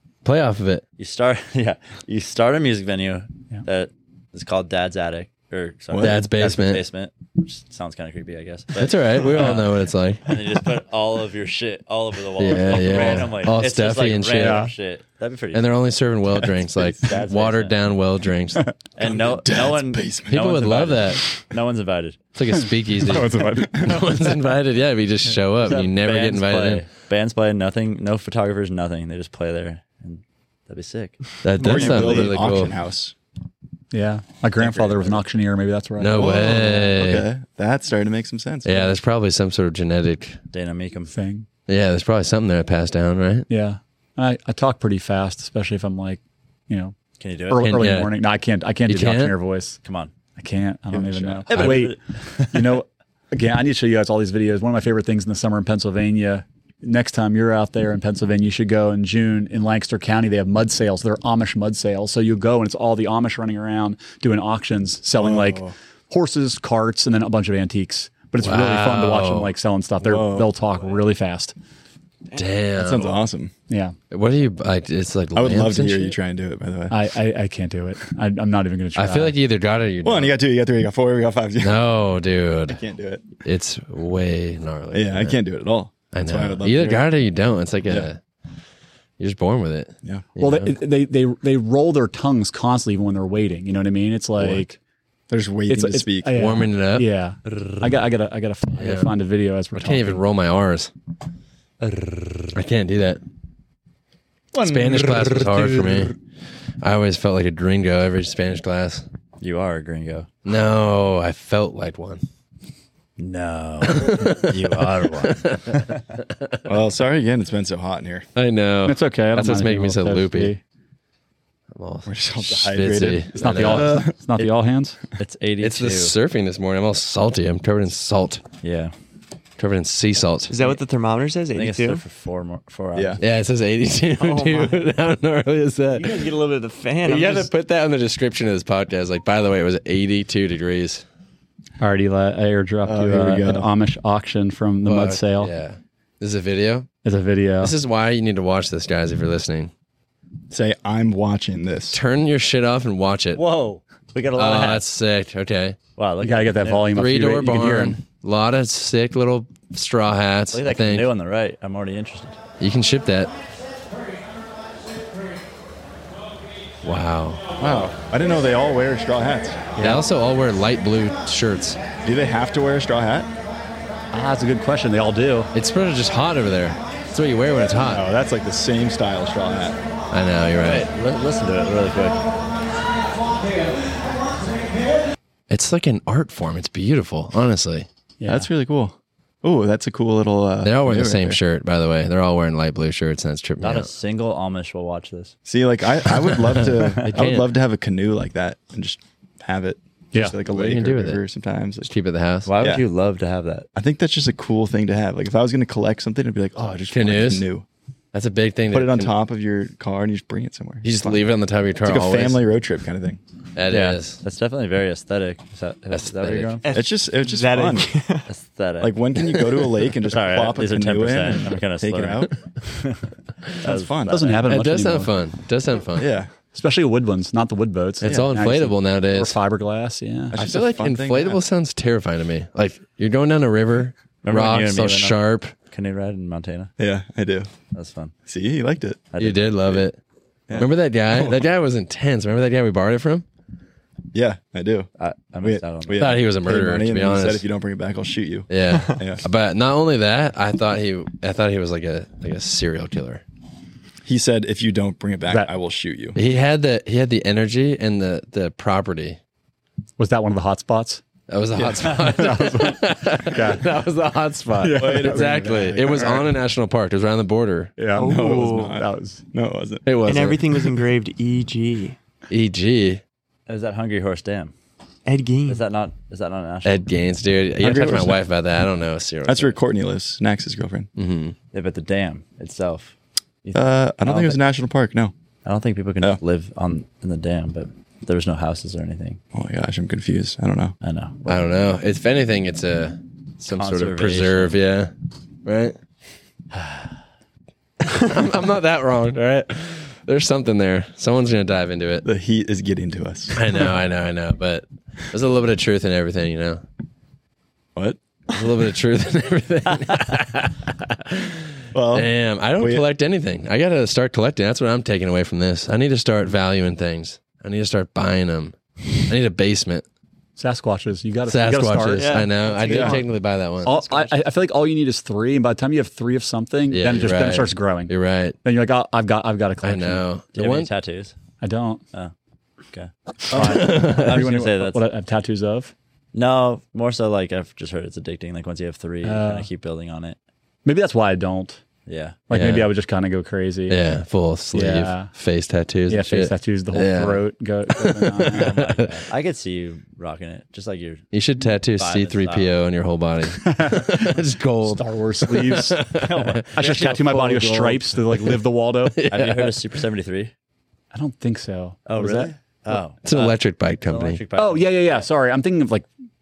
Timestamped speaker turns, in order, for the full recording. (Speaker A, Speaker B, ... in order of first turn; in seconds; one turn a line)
Speaker A: 0.2-0.8
Speaker B: 1.0-9.7
Speaker C: 5.9-6.2
Speaker A: 6.0-6.8
Speaker A: 8.8-10.4
Speaker B: 10.2-15.7
Speaker A: 12.4-14.7
Speaker D: 14.4-14.7
Speaker A: 15.5-18.7
Speaker B: 16.8-17.8
Speaker B: 19.0-22.2
Speaker C: 19.0-20.4
Speaker A: 20.3-21.2
Speaker A: 22.4-26.9
Speaker D: 22.5-24.0
Speaker B: 25.7-31.2
Speaker A: 31.4-32.8
Speaker C: 31.6-33.1
Speaker D: 33.9-36.9
Speaker A: 36.0-37.3
Speaker C: 36.1-38.9
Speaker A: 38.6-40.4
Speaker B: 40.5-41.1
Speaker D: 41.1-41.5
Speaker A: 41.7-43.5
Speaker D: 43.5-47.0
Speaker B: 47.2-47.7
Speaker D: 47.5-49.8
Speaker A: 47.5-48.1
Speaker A: 48.9-49.4
Speaker B: 49.8-50.1
Speaker D: 50.4-71.5
Speaker C: 50.9-51.5
Speaker B: 51.5-52.8
Speaker A: 51.5-51.9
Speaker C: 65.2-65.7
Speaker A: 68.4-69.5
Speaker C: 70.0-70.5
Speaker A: 72.3-73.2
Speaker C: 72.8-73.5
Speaker D: 73.7-74.0
Speaker A: 74.1-76.2
Speaker C: 75.4-77.0
Speaker D: 76.9-79.4
Speaker A: 79.0-80.3
Speaker C: 80.0-81.8
Speaker A: 81.6-82.8
Speaker C: 82.7-83.3
Speaker A: 83.4-85.4
Speaker C: 84.9-87.0
Speaker A: 86.1-88.2
Speaker A: 89.2-90.7
Speaker D: 90.4-94.8
Speaker C: 95.3-96.5
Speaker D: 95.7-100.2
Speaker A: 96.3-97.1
Speaker A: 98.8-99.1
Speaker A: 99.8-100.9
Speaker B: 101.9-102.5
Speaker A: 102.5-103.2
Speaker A: 104.6-106.2
Speaker B: 104.9-105.9
Speaker A: 106.8-109.1
Speaker B: 109.4-110.3
Speaker A: 110.5-112.2
Speaker B: 113.2-116.0
Speaker A: 113.9-115.8
Speaker C: 116.7-118.3
Speaker A: 118.3-120.5
Speaker D: 118.8-120.6
Speaker A: 121.7-124.1
Speaker C: 122.0-124.2
Speaker D: 123.3-125.0
Speaker B: 125.2-126.2
Speaker A: 125.6-128.4
Speaker B: 128.6-128.9
Speaker A: 129.6-130.7
Speaker E: 130.5-132.0
Speaker B: 131.5-133.2
Speaker C: 132.9-133.2
Speaker A: 133.2-136.3
Speaker E: 134.2-134.8
Speaker E: 136.0-137.5
Speaker A: 137.0-141.1
Speaker D: 141.8-145.5
Speaker C: 142.8-143.7
Speaker A: 144.8-146.9
Speaker D: 147.0-147.8
Speaker A: 147.6-149.7
Speaker C: 150.5-152.0
Speaker A: 151.9-153.4
Speaker B: 153.4-154.8
Speaker A: 154.3-155.8
Speaker B: 156.0-156.9
Speaker D: 156.2-158.0
Speaker A: 156.9-161.1
Speaker B: 160.5-162.4
Speaker A: 162.6-163.3
Speaker A: 166.8-167.4
Speaker C: 167.6-169.7
Speaker D: 169.8-170.0
Speaker A: 169.8-171.8
Speaker C: 172.0-173.3
Speaker D: 174.1-175.5
Speaker A: 175.5-178.0
Speaker C: 178.0-179.8
Speaker A: 180.1-180.9
Speaker B: 180.6-182.2
Speaker A: 185.5-187.9
Speaker D: 188.2-188.5
Speaker C: 188.3-191.4
Speaker A: 190.6-193.9
Speaker B: 193.6-195.4
Speaker C: 195.5-201.9
Speaker A: 196.3-197.5
Speaker B: 196.8-197.1
Speaker A: 200.3-201.2
Speaker A: 201.8-202.5
Speaker B: 202.5-203.7
Speaker C: 203.8-207.7
Speaker A: 206.9-207.5
Speaker A: 208.1-209.1
Speaker C: 208.7-211.2
Speaker A: 210.8-212.4
Speaker C: 211.8-213.2
Speaker A: 213.6-214.2
Speaker B: 213.7-216.7
Speaker A: 215.9-216.6
Speaker E: 216.6-218.3
Speaker C: 216.7-217.9
Speaker B: 218.3-219.0
Speaker C: 218.8-222.3
Speaker B: 220.0-224.4
Speaker C: 223.6-224.2
Speaker D: 224.1-225.1
Speaker A: 224.5-226.1
Speaker C: 226.0-226.3
Speaker D: 226.5-230.4
Speaker A: 228.0-229.4
Speaker C: 228.0-228.3
Speaker C: 230.3-231.4
Speaker A: 230.3-235.5
Speaker B: 234.2-236.7
Speaker C: 236.8-237.5
Speaker B: 237.7-238.1
Speaker C: 238.3-239.1
Speaker B: 239.1-239.8
Speaker A: 239.2-240.0
Speaker C: 240.5-241.4
Speaker A: 240.6-243.3
Speaker C: 244.1-244.9
Speaker B: 245.0-246.1
Speaker C: 245.4-249.2
Speaker A: 246.0-247.4
Speaker A: 248.5-253.2
Speaker E: 248.7-249.0
Speaker C: 254.1-256.2
Speaker A: 256.1-259.2
Speaker D: 260.0-261.0
Speaker A: 261.3-267.8
Speaker C: 261.6-262.1
Speaker D: 262.1-263.7
Speaker D: 264.6-265.5
Speaker C: 264.8-266.3
Speaker D: 267.8-269.2
Speaker E: 268.0-268.8
Speaker C: 268.0-269.9
Speaker A: 269.9-270.7
Speaker E: 270.1-272.0
Speaker A: 272.3-273.0
Speaker B: 273.5-274.5
Speaker E: 275.1-275.6
Speaker B: 275.5-276.9
Speaker A: 276.6-279.6
Speaker C: 277.6-278.2
Speaker C: 279.3-280.9
Speaker A: 281.0-281.4
Speaker B: 281.5-282.9
Speaker B: 283.4-284.4
Speaker C: 283.6-285.1
Speaker B: 285.4-289.2
Speaker C: 289.3-290.8
Speaker B: 290.8-291.3
Speaker A: 291.3-294.9
Speaker B: 293.4-294.6
Speaker A: 295.4-295.8
Speaker A: 297.8-302.1
Speaker C: 302.0-303.6
Speaker A: 303.3-306.6
Speaker A: 308.3-319.9
Speaker C: 311.7-312.9
Speaker D: 320.4-323.0
Speaker A: 321.3-323.8
Speaker E: 322.0-322.3
Speaker C: 322.6-323.0
Speaker D: 323.6-330.0
Speaker B: 323.7-324.0
Speaker A: 326.7-328.4
Speaker A: 329.6-330.7
Speaker B: 330.4-331.1
Speaker D: 331.4-331.8
Speaker B: 332.7-334.8
Speaker D: 333.3-335.7
Speaker A: 333.4-334.2
Speaker B: 336.1-340.2
Speaker D: 339.0-339.5
Speaker D: 340.6-341.6
Speaker B: 341.9-342.2
Speaker D: 342.3-344.0
Speaker A: 342.3-342.7
Speaker A: 343.7-349.0
Speaker D: 344.5-345.1
Speaker D: 345.9-348.5
Speaker B: 348.3-351.1
Speaker A: 351.1-356.4
Speaker B: 351.8-352.6
Speaker D: 353.4-355.8
Speaker B: 355.9-357.8
Speaker D: 356.5-359.0
Speaker A: 358.9-359.6
Speaker B: 359.1-360.3
Speaker D: 360.9-362.3
Speaker B: 361.9-364.9
Speaker A: 362.7-364.2
Speaker D: 364.4-365.9